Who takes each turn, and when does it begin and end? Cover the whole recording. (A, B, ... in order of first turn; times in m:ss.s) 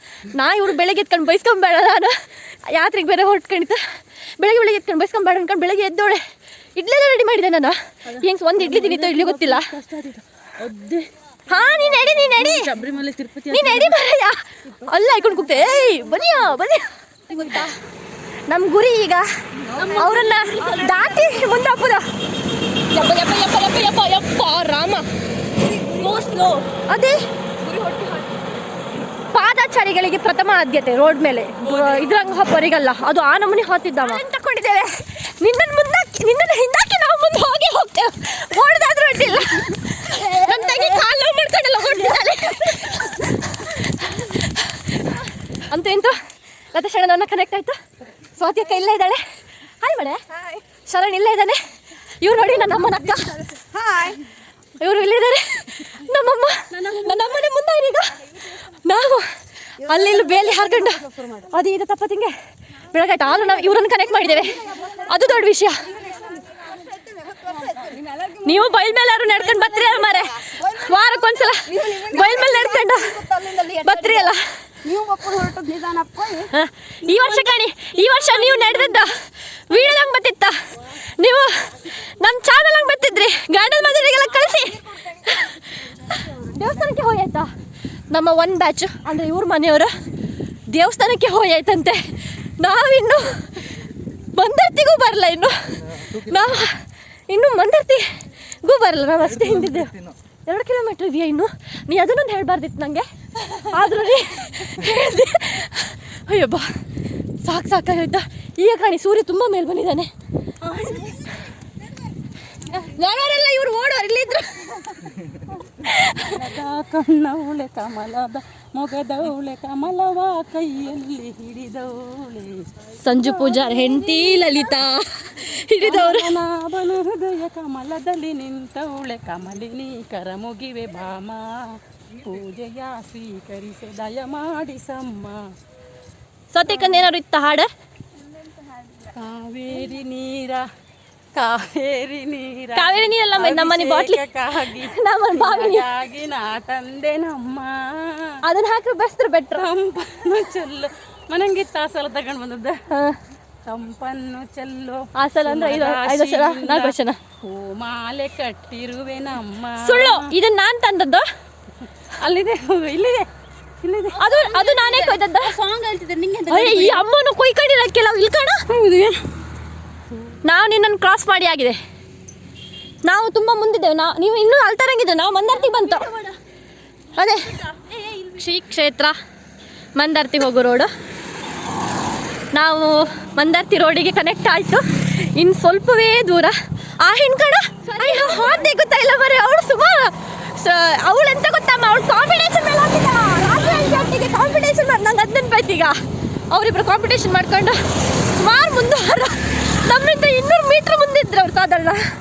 0:00.3-0:03.8 A
0:04.4-0:06.2 A
0:06.8-0:09.7 A
0:08.1-0:14.0 B
0:11.5-0:12.7 A
0:13.5-0:17.8 A
0:15.6-0:15.9 C
0:17.3-0:17.7 B
0:18.5-0:19.3 A
0:19.6-0:21.6 C
0:19.8-0:21.0 B
0:19.9-0:22.0 A
0:22.9-0:25.1 A
0:25.5-0:26.4 C
0:26.0-0:27.2 A
0:27.6-0:28.6 C
0:29.3-0:46.2 A
0:31.7-0:32.4 B
0:46.7-0:47.8 A
0:48.4-0:49.2 A
0:49.8-0:50.2 A
0:50.3-0:50.6 C
0:50.9-0:51.6 A
0:52.2-0:53.4 A
0:52.4-0:54.2 C
0:54.8-0:59.3 A
0:56.7-0:57.4 B
0:59.8-1:02.3 A
0:59.8-1:01.5 C
1:02.9-1:05.9 A
1:03.5-1:14.3 C
1:04.4-1:05.3 B
1:07.5-1:07.9 B
1:08.4-1:13.2 A
1:13.8-1:14.5 A
1:14.8-1:16.5 B
1:16.5-1:27.5 A
1:17.0-1:19.1 B
1:24.5-1:25.0 C
1:28.1-1:30.0 A
1:30.7-1:46.7 A
1:47.4-1:50.1 A
1:50.7-1:51.1 B
1:52.7-1:54.7 A
1:55.8-1:56.3 A
1:56.2-2:04.5 B
2:03.0-2:06.3 A
2:05.8-2:15.5 B
2:16.5-2:17.7 A
2:16.7-2:17.1 B
2:18.2-2:19.1 C
2:19.1-2:20.6 B
2:21.4-2:28.3 B
2:22.8-2:24.2 A
2:24.8-2:25.8 A
2:28.4-2:29.7 A
2:29.6-2:32.8 B
2:32.9-2:33.2 A
2:33.6-2:40.3 B
2:35.2-2:37.2 A
2:39.8-2:41.3 A
2:42.2-2:43.3 B
2:43.8-2:47.0 B
2:44.2-2:45.5 A
2:46.5-2:48.6 A
2:48.7-2:49.2 B
2:50.4-2:51.8 A
2:53.0-2:56.1 A
2:55.5-2:56.4 B
2:57.2-2:57.5 A
2:57.2-2:58.5 B
2:58.4-2:59.2 A
3:00.0-3:00.9 A
3:02.5-3:16.0 A
3:07.9-3:08.7 B
3:13.6-3:14.2 B
3:16.5-3:22.0 A